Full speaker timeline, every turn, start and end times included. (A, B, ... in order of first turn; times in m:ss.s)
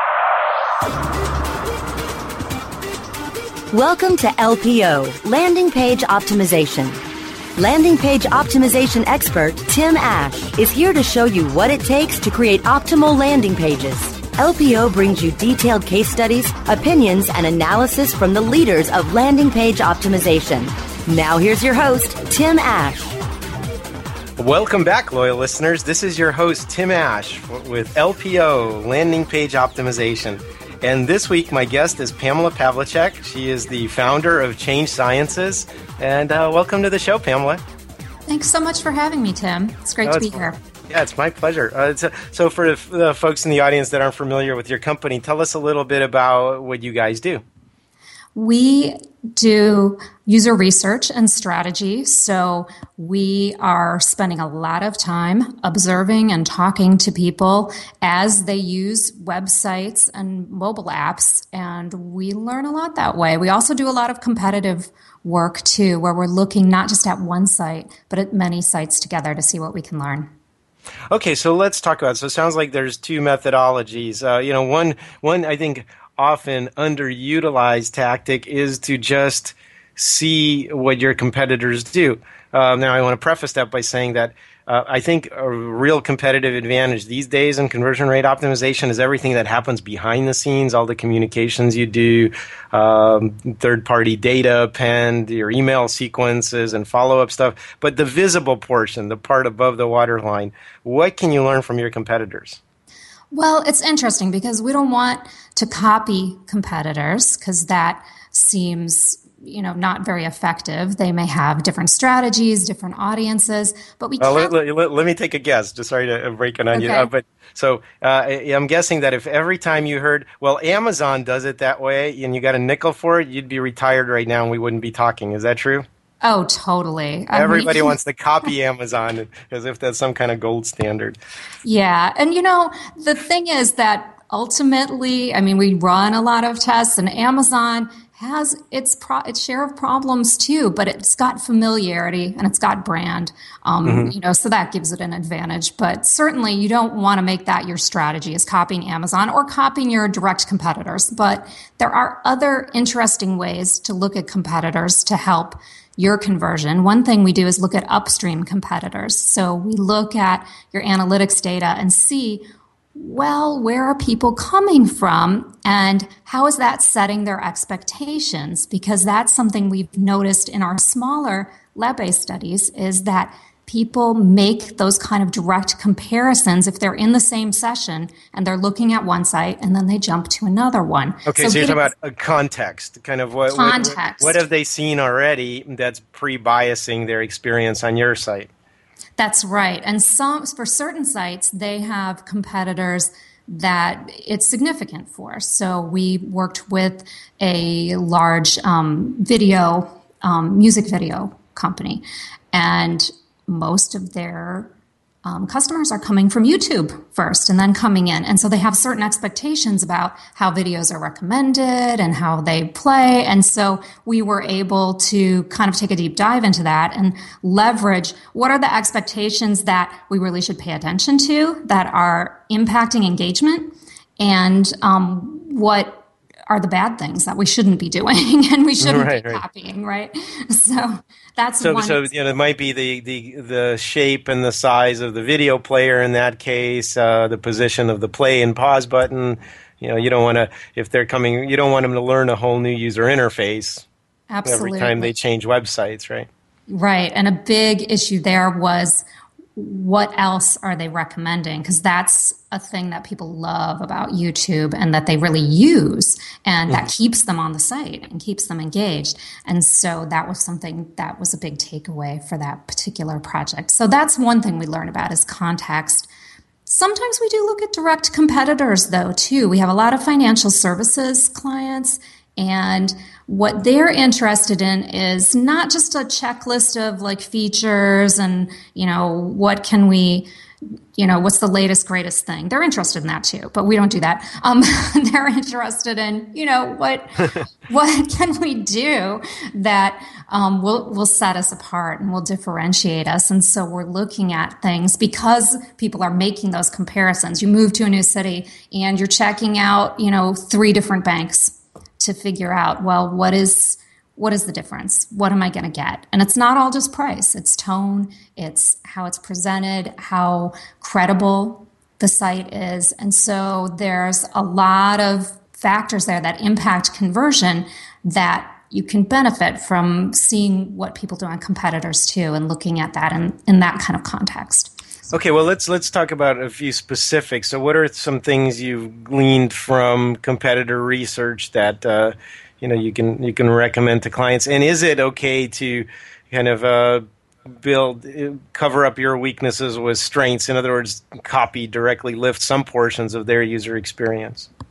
0:03.7-0:07.0 A
0:07.6-0:23.2 A
0:24.4-0:37.6 B
0:38.3-0:40.6 C
0:40.0-0:40.4 B
0:40.9-0:47.4 B
0:48.3-1:10.3 C
1:11.1-1:42.6 B
1:43.3-1:54.5 C
1:54.2-2:05.8 B
1:56.7-1:57.1 C
2:06.2-2:07.9 C
2:07.3-2:11.2 B
2:11.6-2:42.4 C
2:23.8-2:24.1 B
2:42.9-3:01.9 C
3:01.2-3:08.5 B
3:03.5-3:04.4 C
3:09.2-3:24.7 C
3:25.2-3:52.1 C
3:48.8-3:49.4 B
3:51.6-4:03.8 B
4:04.3-4:05.1 C
4:04.4-4:06.3 B
4:06.7-4:09.0 C
4:09.6-4:26.1 C
4:26.7-4:40.3 C
4:41.0-5:24.7 C
5:25.1-5:37.0 B
5:37.6-5:44.5 B